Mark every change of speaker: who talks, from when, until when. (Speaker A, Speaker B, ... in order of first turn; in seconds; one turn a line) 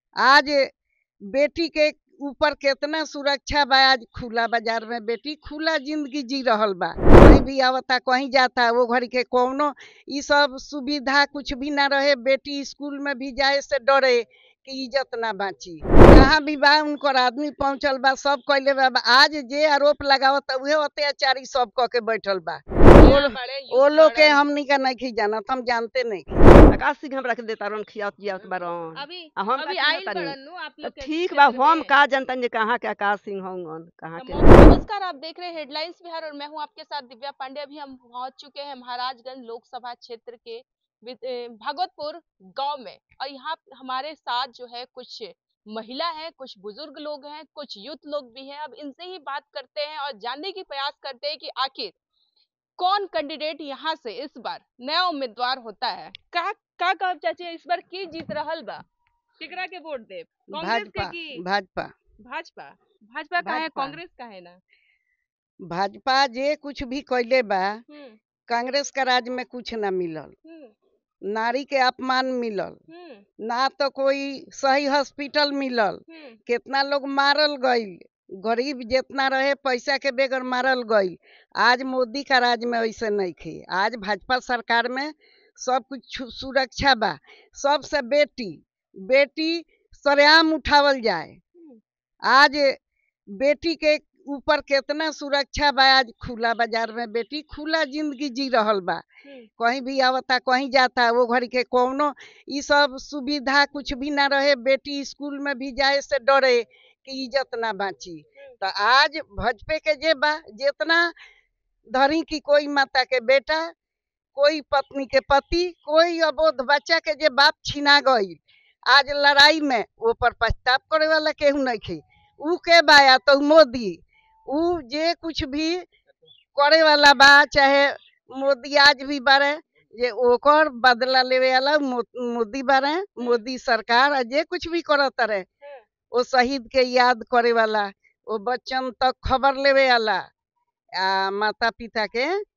Speaker A: 0.2-0.7
Speaker A: 1.3-26.5
Speaker B: 22.9-24.4
Speaker C: 26.7-34.4
Speaker B: 28.9-31.9
Speaker B: 34.2-52.0
Speaker B: 52.8-58.8
Speaker B: 59.4-61.4
Speaker A: 60.5-61.9
Speaker B: 62.2-64.6
Speaker A: 63.4-64.0
Speaker A: 65.7-67.8
Speaker B: 67.9-68.2
Speaker A: 68.5-70.3
Speaker B: 70.5-70.7
Speaker A: 71.3-72.8
Speaker B: 72.9-73.2
Speaker A: 73.4-91.4
Speaker B: 76.1-76.4
Speaker A: 92.3-92.8
Speaker A: 93.4-99.0
Speaker A: 99.6-111.1
Speaker A: 111.9-113.7
Speaker A: 114.3-125.9
Speaker A: 126.5-135.5
Speaker A: 136.1-140.2
Speaker A: 141.0-142.4